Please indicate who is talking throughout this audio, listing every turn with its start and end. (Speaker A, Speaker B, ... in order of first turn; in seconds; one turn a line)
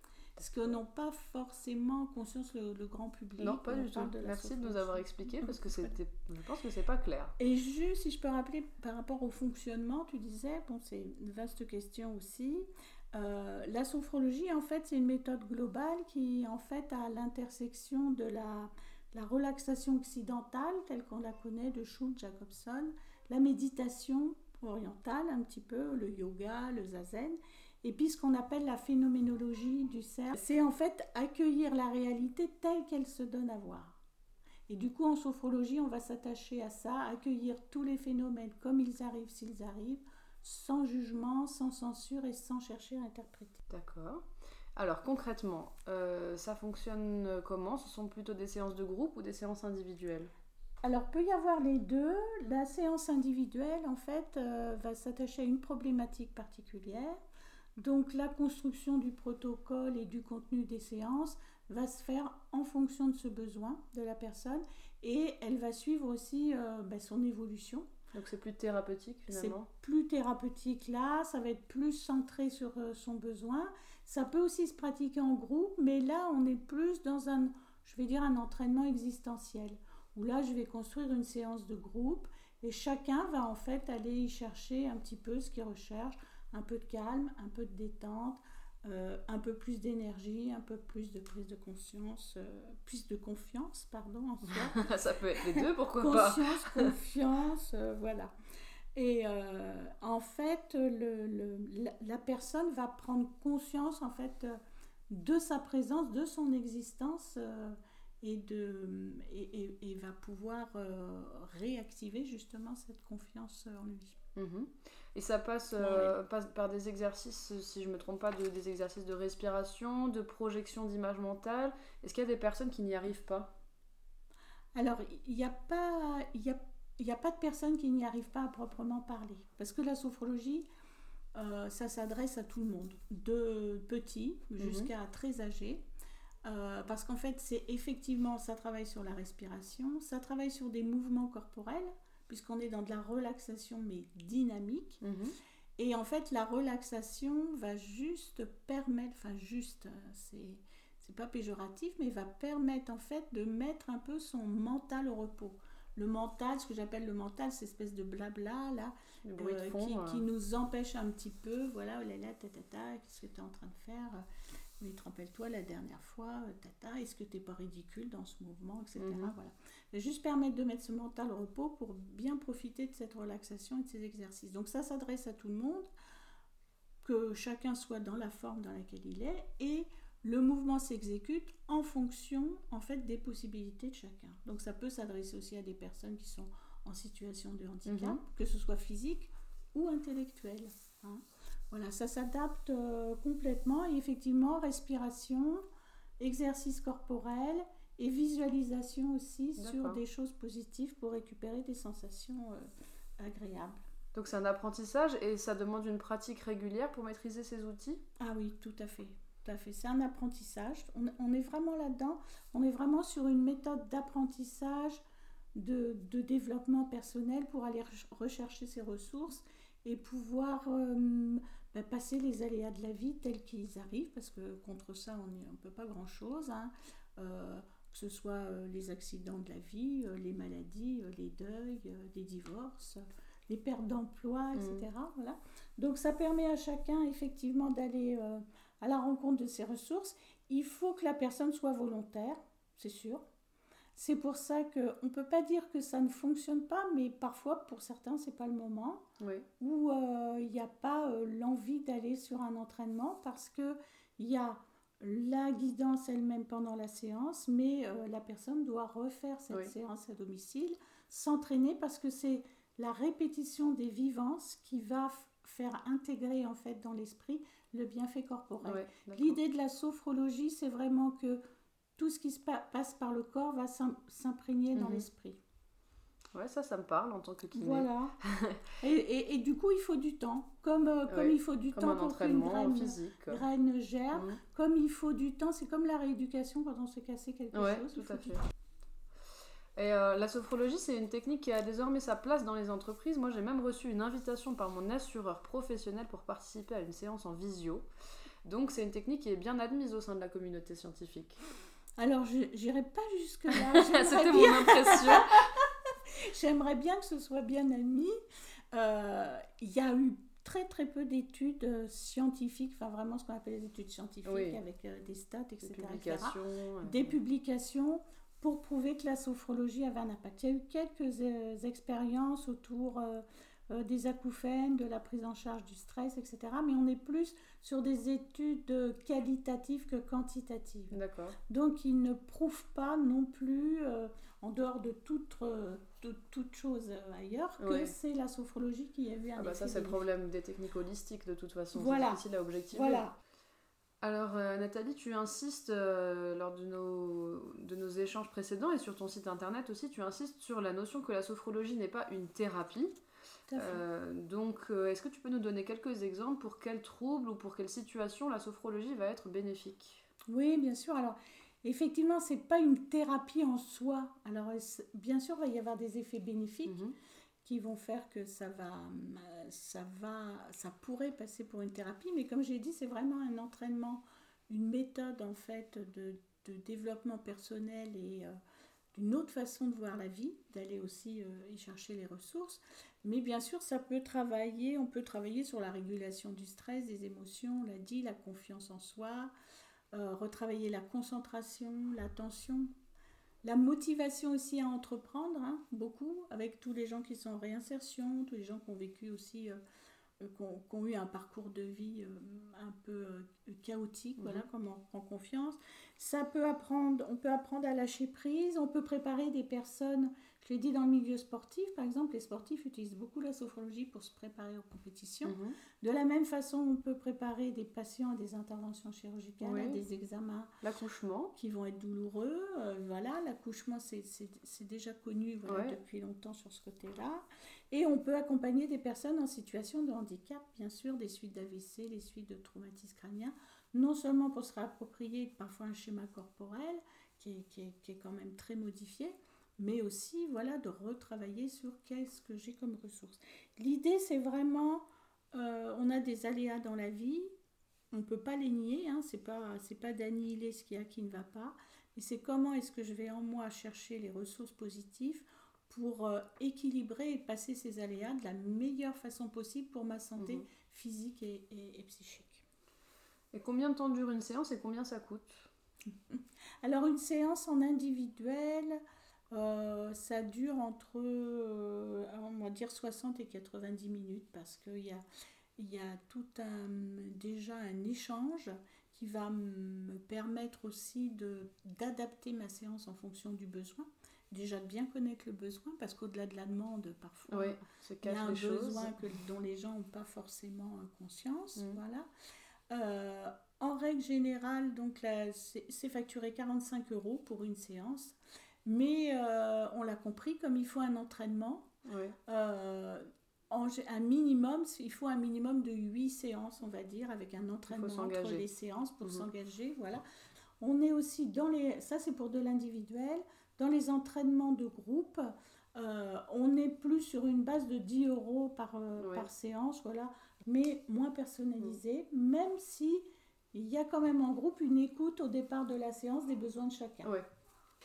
Speaker A: 0.4-5.9
Speaker B: 3.4-7.3
Speaker A: 7.4-34.0
Speaker A: 34.7-43.6
Speaker B: 43.7-44.2
Speaker B: 44.8-50.3
Speaker A: 50.8-57.2
Speaker A: 57.8-67.9
Speaker B: 68.1-69.7
Speaker A: 69.3-94.8
Speaker B: 94.5-97.0
Speaker A: 95.6-98.3
Speaker A: 99.0-104.6
Speaker A: 105.1-114.2
Speaker B: 114.4-123.5
Speaker A: 115.8-116.2
Speaker A: 124.8-130.7
Speaker A: 131.3-135.8
Speaker B: 134.6-134.9
Speaker A: 136.4-145.0
Speaker B: 145.0-145.4
Speaker A: 145.8-164.2
Speaker B: 159.2-160.2
Speaker A: 164.8-175.9
Speaker B: 169.0-169.3
Speaker A: 177.0-195.6
Speaker B: 187.9-188.2
Speaker A: 196.2-202.7
Speaker B: 199.6-200.0
Speaker A: 203.2-203.8
Speaker B: 204.1-208.0
Speaker A: 208.2-215.0
Speaker A: 215.6-243.2
Speaker B: 234.6-234.9
Speaker A: 244.0-249.0
Speaker B: 249.2-249.5
Speaker A: 249.6-271.4
Speaker B: 268.6-269.4
Speaker A: 272.0-275.4
Speaker B: 274.8-275.1
Speaker B: 276.4-278.7
Speaker A: 277.5-278.2
Speaker A: 278.8-288.4
Speaker B: 281.1-283.4
Speaker B: 284.1-284.4
Speaker B: 287.5-288.4
Speaker B: 289.8-297.9
Speaker B: 298.5-301.4
Speaker A: 302.0-308.2
Speaker B: 303.6-305.5
Speaker A: 308.7-331.0
Speaker B: 314.2-314.6
Speaker B: 315.6-317.2
Speaker B: 330.9-331.4
Speaker A: 331.5-340.0
Speaker B: 337.6-337.9
Speaker B: 339.4-343.0
Speaker A: 341.7-343.1
Speaker B: 344.0-352.9
Speaker A: 353.5-353.8
Speaker B: 353.6-360.1
Speaker A: 360.3-366.8
Speaker B: 366.7-366.9
Speaker A: 367.4-378.4
Speaker A: 378.9-389.3
Speaker A: 389.9-392.7
Speaker A: 393.4-399.6
Speaker A: 400.2-420.5
Speaker B: 404.2-404.4
Speaker B: 415.2-415.6
Speaker B: 419.4-419.8
Speaker B: 420.6-421.3
Speaker A: 421.4-447.3
Speaker B: 425.4-425.8
Speaker A: 447.9-462.4
Speaker B: 460.2-460.4
Speaker B: 463.3-465.5
Speaker A: 466.1-468.8
Speaker A: 469.3-475.0
Speaker A: 475.6-492.1
Speaker B: 487.3-489.0
Speaker A: 492.7-501.7
Speaker B: 501.9-502.2
Speaker A: 502.3-510.0
Speaker B: 507.7-508.4
Speaker A: 510.6-527.1
Speaker B: 519.0-519.3